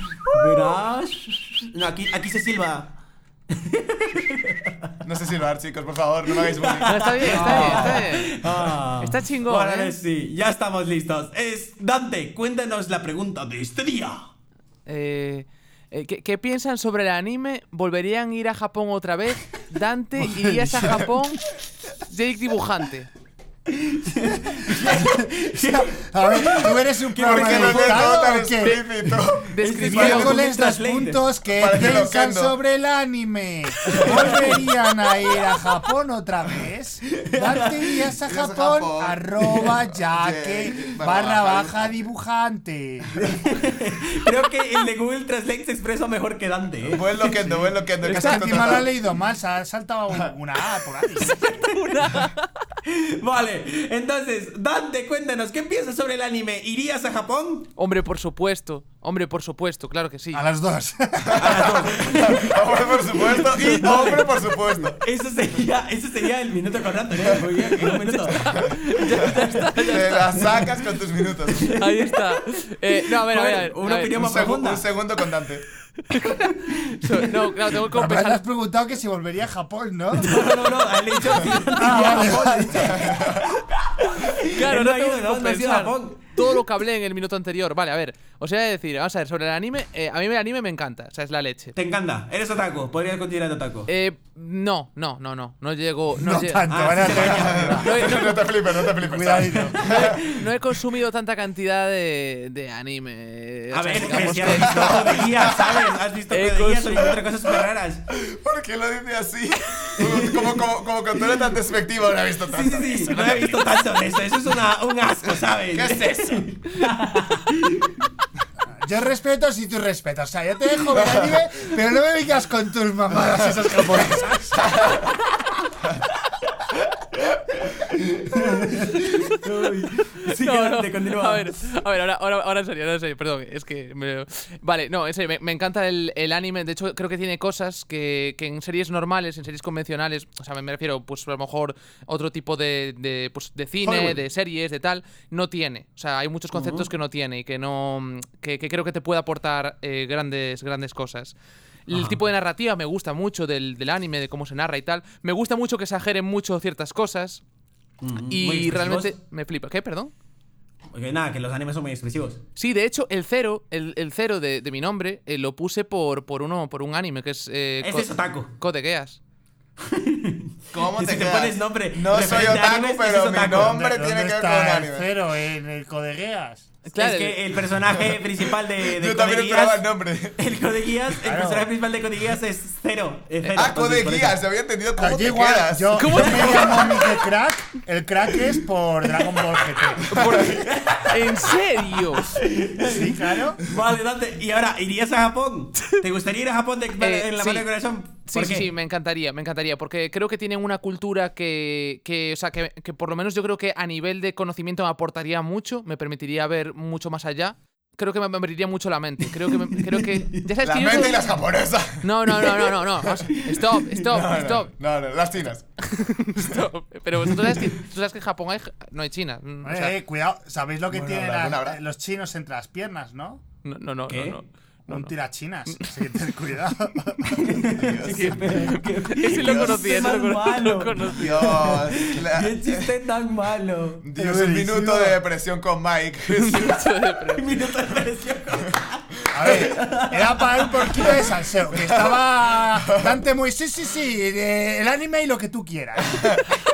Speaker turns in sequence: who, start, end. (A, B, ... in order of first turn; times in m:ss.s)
0:00.3-0:02.9 A
0:03.5-0:04.9 A
0:05.0-0:08.0 B
0:06.4-0:14.3 A
0:06.9-0:08.4 C
0:07.3-0:07.9 D
0:09.0-0:10.0 C
0:14.9-0:21.5 C
0:20.8-0:21.0 B
0:22.0-0:23.1 C
0:23.7-0:28.2 A
0:24.8-0:28.8 D
0:27.2-0:30.4 B
0:29.3-0:30.5 C
0:29.6-0:31.2 A
0:29.9-0:43.2 D
0:31.6-0:32.6 B
0:33.9-0:34.6 A
0:37.1-0:38.0 A
0:38.2-0:39.2 B
0:39.4-0:39.7 A
0:39.9-0:42.0 B
0:43.2-0:47.7 A
0:46.9-0:48.9 B
0:48.0-0:48.8 C
0:48.1-0:51.3 D
0:51.4-0:52.5 C
0:52.9-0:57.7 A
0:57.8-1:00.5 C
1:00.3-1:01.8 D
1:01.4-1:05.0 B
1:01.4-1:02.4 A
1:03.3-1:04.2 C
1:03.8-1:04.3 A
1:05.0-1:08.5 A
1:07.8-1:10.7 C
1:08.4-1:08.7 B
1:09.9-1:11.7 B
1:11.6-1:12.2 A
1:11.8-1:14.2 C
1:13.2-1:14.8 A
1:14.2-1:15.6 B
1:16.1-1:18.4 C
1:16.3-1:17.2 A
1:17.9-1:20.7 D
1:20.1-1:26.4 A
1:21.8-1:23.0 D
1:21.8-1:22.3 C
1:22.7-1:23.6 B
1:24.5-1:31.8 C
1:31.8-1:33.9 A
1:33.9-1:36.9 C
1:36.2-1:37.9 D
1:36.7-1:37.8 A
1:37.0-1:40.2 B
1:37.8-1:38.5 C
1:39.0-1:39.9 D
1:39.8-1:40.5 A
1:39.8-1:45.6 C
1:43.7-1:48.0 A
1:44.5-1:45.9 B
1:46.3-1:47.2 C
1:48.1-1:53.5 B
1:50.0-1:50.4 A
1:52.5-1:58.0 A
1:53.0-1:53.6 D
1:55.2-1:56.4 B
1:58.8-2:04.8 D
2:01.0-2:01.4 B
2:03.2-2:03.6 B
2:04.6-2:05.0 B
2:08.3-2:11.5 A
2:09.1-2:09.4 C
2:10.4-2:31.4 C
2:23.8-2:24.2 A
2:26.5-2:26.9 A
2:31.9-2:37.4 C
2:31.9-2:32.2 A
2:38.0-2:39.1 A
2:38.3-2:40.1 C
2:40.9-2:42.4 A
2:42.6-2:49.2 C
2:47.8-2:48.5 A
2:49.9-2:53.8 A
2:50.7-2:55.1 B
2:53.6-2:56.7 D
2:56.8-2:57.4 C
2:57.0-2:59.8 A
2:57.9-3:00.4 B
3:00.4-3:04.4 A
3:01.2-3:01.7 D
3:03.4-3:03.7 C
3:03.6-3:06.6 B
3:05.0-3:10.1 D
3:06.0-3:06.9 C
3:06.2-3:06.8 A
3:10.1-3:12.3 C
3:10.2-3:10.6 B
3:10.4-3:11.2 A
3:12.2-3:18.7 A
3:12.8-3:13.6 D
3:17.0-3:17.7 C
3:18.3-3:31.4 C
3:30.6-3:32.7 B
3:32.0-3:34.8 C
3:33.4-3:34.0 A
3:34.0-3:35.6 B
3:35.9-3:40.0 C
3:39.6-3:43.4 D
3:40.9-3:41.8 B
3:43.6-3:45.1 C
3:44.1-3:44.4 A
3:44.9-3:47.6 D
3:45.7-3:46.2 C
3:47.4-3:54.0 A
3:47.7-3:48.7 B
3:48.4-3:51.8 C
3:49.4-3:49.8 B
3:51.2-3:52.9 B
3:54.0-3:56.8 B
3:54.2-3:55.2 D
3:56.3-3:57.5 C
3:57.3-4:01.3 A
3:59.3-4:06.2 D
4:01.8-4:03.2 B